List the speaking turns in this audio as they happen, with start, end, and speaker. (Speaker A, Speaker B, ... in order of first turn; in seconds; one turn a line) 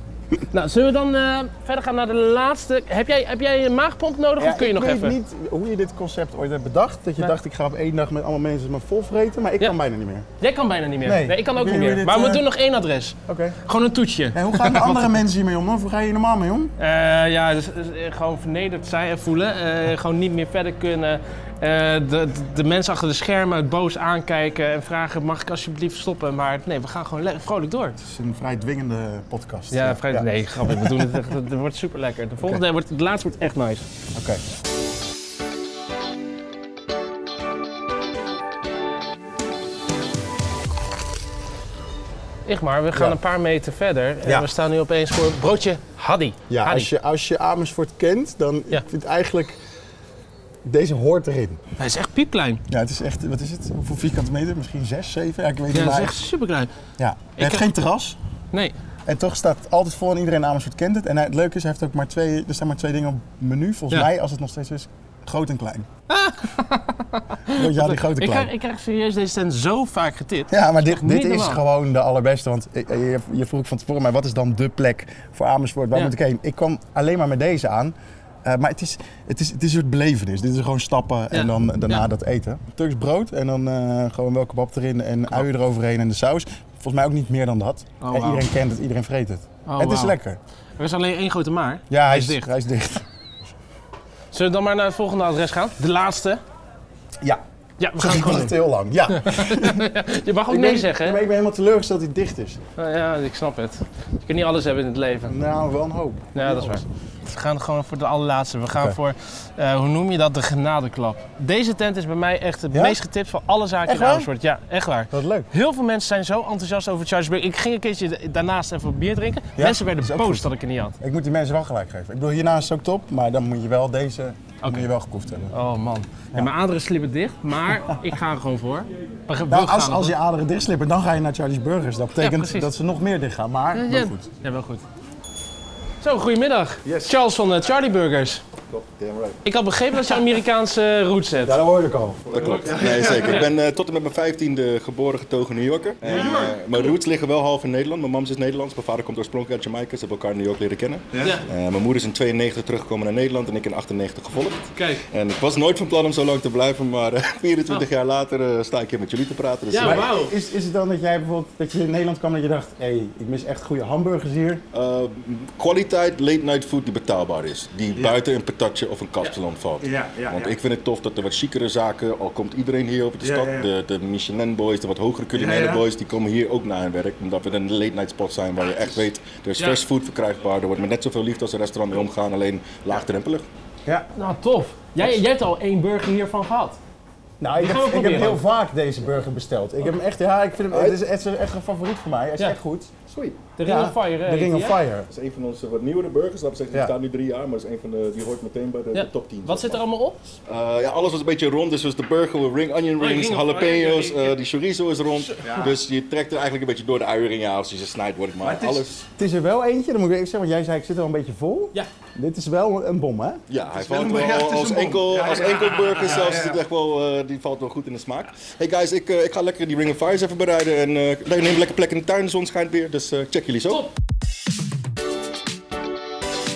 Speaker A: 0.5-5.2
Speaker B: 4.4-10.3
Speaker A: 10.4-15.2
Speaker B: 11.0-12.4
Speaker B: 13.3-13.6
Speaker B: 14.3-16.7
Speaker A: 16.8-28.0
Speaker B: 28.0-31.2
Speaker A: 29.7-33.9
Speaker B: 34.1-34.4
Speaker A: 42.5-46.9
Speaker B: 42.9-43.2
Speaker B: 46.5-49.6
Speaker B: 50.6-51.6
Speaker A: 51.8-52.6
Speaker B: 52.7-56.2
Speaker A: 55.7-56.7
Speaker B: 57.0-58.2
Speaker A: 57.4-57.6
Speaker B: 59.1-65.9
Speaker A: 66.1-71.6
Speaker B: 67.5-68.5
Speaker B: 70.5-90.4
Speaker A: 81.3-82.0
Speaker A: 88.0-88.5
Speaker A: 89.7-90.2
Speaker A: 90.8-92.5
Speaker B: 91.9-93.0
Speaker A: 94.3-96.4
Speaker A: 97.8-98.6
Speaker B: 98.0-100.0
Speaker A: 99.1-101.2
Speaker B: 100.5-102.6
Speaker A: 102.8-105.3
Speaker B: 105.2-106.8
Speaker A: 106.3-121.0
Speaker B: 112.7-113.0
Speaker B: 113.8-114.3
Speaker B: 115.1-115.5
Speaker B: 119.5-120.5
Speaker B: 121.0-125.5
Speaker A: 124.6-124.9
Speaker A: 125.5-130.2
Speaker B: 129.5-134.2
Speaker A: 132.2-132.7
Speaker A: 133.7-134.8
Speaker A: 136.0-138.4
Speaker B: 136.8-137.1
Speaker C: 138.7-139.4
Speaker A: 139.4-141.6
Speaker B: 141.4-143.5
Speaker C: 142.3-160.1
Speaker A: 143.1-143.4
Speaker B: 146.0-146.6
Speaker B: 151.1-151.4
Speaker A: 154.8-155.0
Speaker A: 159.7-160.3
Speaker B: 159.8-164.6
Speaker C: 164.7-183.5
Speaker B: 169.8-170.6
Speaker B: 173.2-173.7
Speaker B: 175.3-175.8
Speaker A: 184.1-186.8
Speaker B: 187.4-192.9
Speaker A: 187.6-188.4
Speaker C: 190.7-191.0
Speaker C: 193.0-193.5
Speaker A: 193.6-194.8
Speaker B: 193.6-195.1
Speaker C: 195.1-199.8
Speaker A: 198.9-200.2
Speaker C: 200.4-209.1
Speaker A: 203.0-204.4
Speaker A: 205.1-205.7
Speaker B: 205.4-205.7
Speaker B: 208.4-216.6
Speaker C: 213.5-223.9